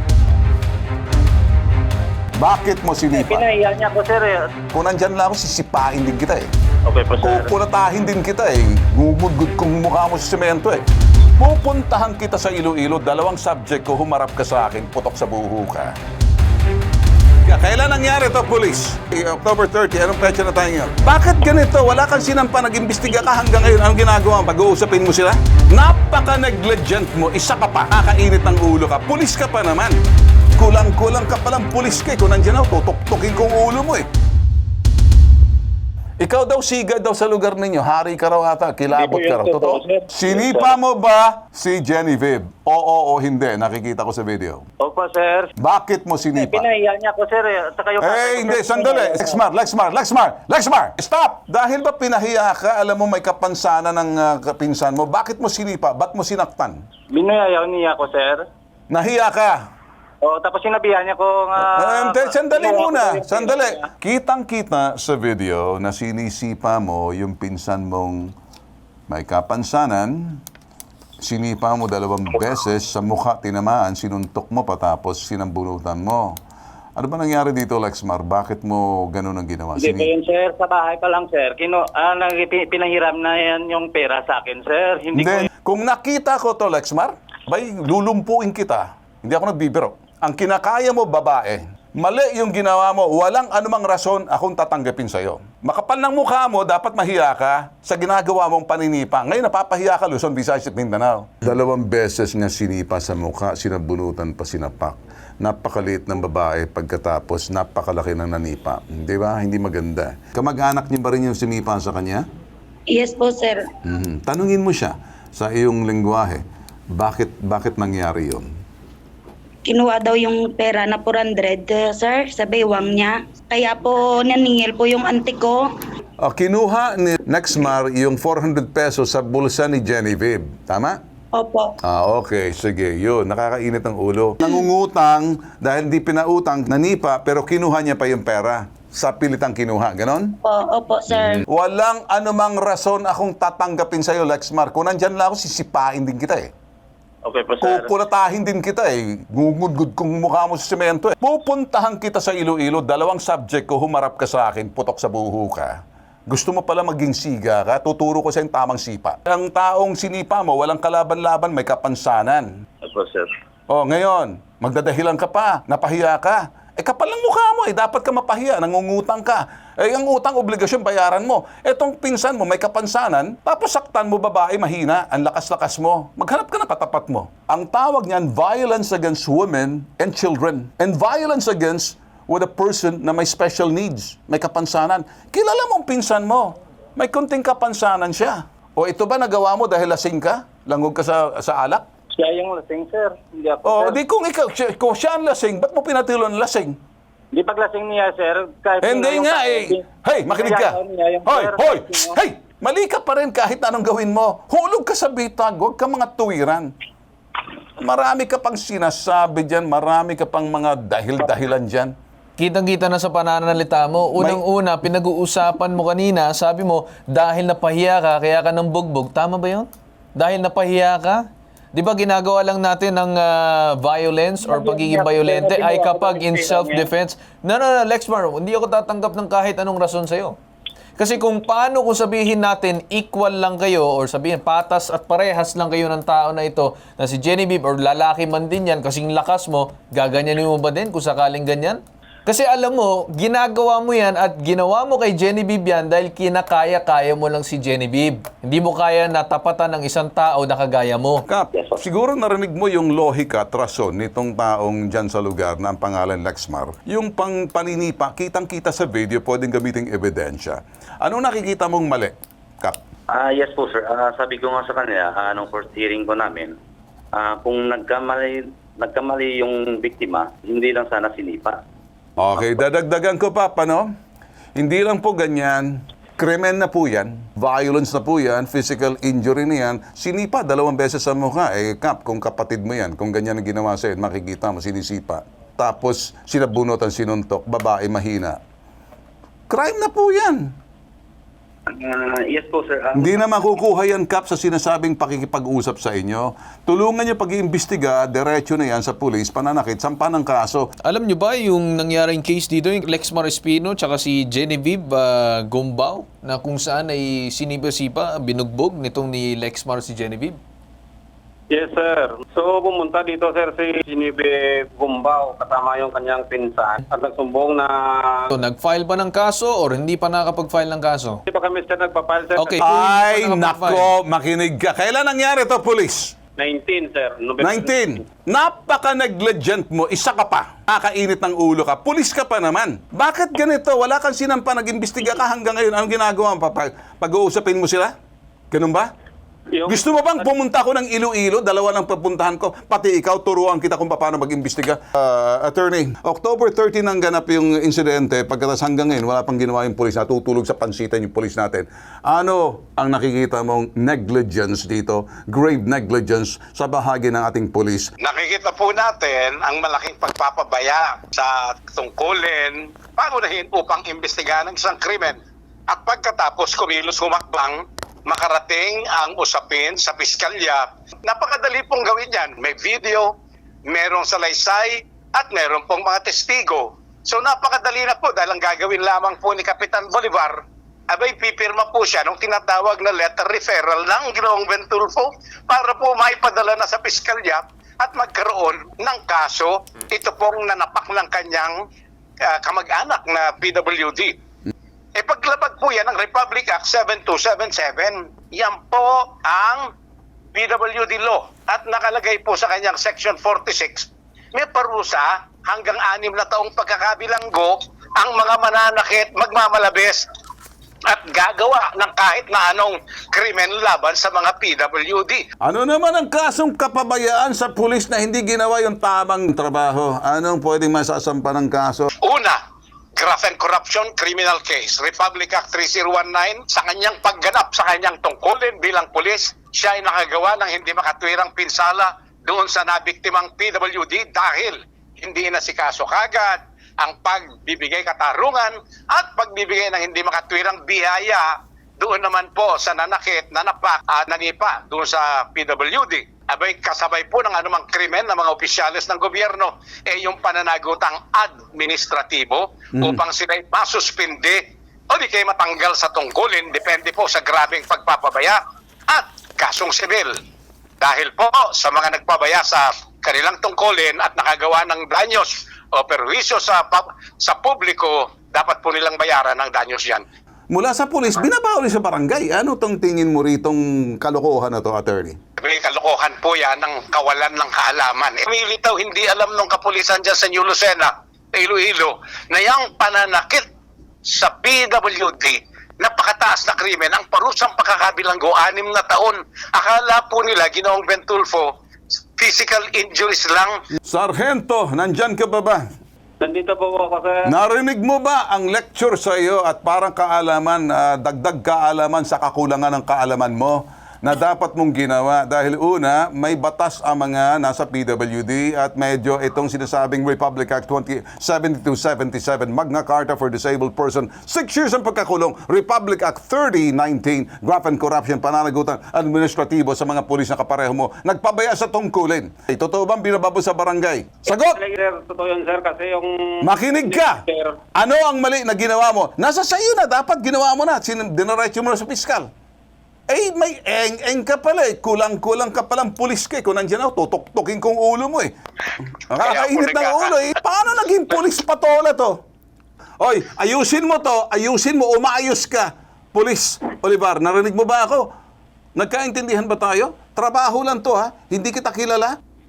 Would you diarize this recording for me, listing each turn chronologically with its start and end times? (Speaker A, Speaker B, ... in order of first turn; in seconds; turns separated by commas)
Speaker A: 2.4-3.4, Speaker B: 3.1-4.5, Speaker A: 4.7-6.5, Speaker B: 6.9-7.5, Speaker A: 7.2-10.8, Speaker A: 11.4-15.9, Speaker A: 17.4-30.0, Speaker A: 30.6-34.1, Speaker A: 36.2-44.7, Speaker B: 38.9-40.8, Speaker B: 44.8-45.5, Speaker A: 45.6-46.6, Speaker B: 46.4-49.4, Speaker A: 48.0-56.8, Speaker B: 57.1-58.5, Speaker A: 58.9-59.6, Speaker B: 60.2-63.9, Speaker A: 61.8-68.2, Speaker A: 69.1-70.4, Speaker A: 71.2-76.3, Speaker A: 77.0-80.1, Speaker B: 79.8-85.5, Speaker A: 85.2-112.2, Speaker C: 112.9-113.7, Speaker A: 113.8-116.4, Speaker A: 117.0-118.5, Speaker C: 119.7-125.7, Speaker A: 126.2-131.0, Speaker C: 131.3-131.7, Speaker A: 131.9-140.3, Speaker C: 140.4-141.4, Speaker A: 141.1-146.5, Speaker B: 147.2-147.9, Speaker A: 147.6-155.7, Speaker A: 156.3-162.5, Speaker D: 162.8-163.3, Speaker A: 163.7-191.8, Speaker B: 192.1-194.0, Speaker A: 193.6-196.8, Speaker B: 197.3-202.2, Speaker A: 198.8-206.7, Speaker A: 207.8-211.9, Speaker E: 212.4-221.2, Speaker E: 221.7-230.4, Speaker B: 224.4-226.9, Speaker E: 231.0-251.2, Speaker A: 251.3-262.8, Speaker D: 251.6-251.8, Speaker D: 263.1-266.6, Speaker D: 267.1-271.6, Speaker A: 272.2-273.9, Speaker A: 274.6-288.4, Speaker A: 289.5-290.4, Speaker D: 291.7-293.1, Speaker A: 292.9-300.7, Speaker E: 300.9-310.4, Speaker F: 311.5-318.3, Speaker E: 318.3-321.2, Speaker F: 321.3-322.6, Speaker E: 322.4-323.9, Speaker A: 322.6-326.1, Speaker F: 326.4-327.6, Speaker A: 327.4-337.9, Speaker A: 338.5-338.9, Speaker F: 339.5-340.2, Speaker A: 339.7-357.9, Speaker G: 358.0-373.1, Speaker G: 373.7-391.6, Speaker G: 392.3-394.1, Speaker G: 395.0-399.7, Speaker G: 400.3-410.0, Speaker G: 410.9-415.2, Speaker A: 415.4-421.9, Speaker G: 422.0-422.4, Speaker G: 423.0-460.1, Speaker A: 452.8-453.0, Speaker G: 460.8-470.0, Speaker A: 470.5-475.2, Speaker G: 475.4-483.4, Speaker G: 484.1-491.5, Speaker G: 492.2-493.5, Speaker A: 493.9-495.6, Speaker F: 496.2-497.2, Speaker A: 497.3-524.6, Speaker F: 524.3-527.6, Speaker A: 526.4-527.2, Speaker A: 527.8-532.3, Speaker A: 533.1-538.3, Speaker A: 539.1-542.1, Speaker G: 539.2-540.2, Speaker A: 543.0-548.1, Speaker A: 548.8-552.1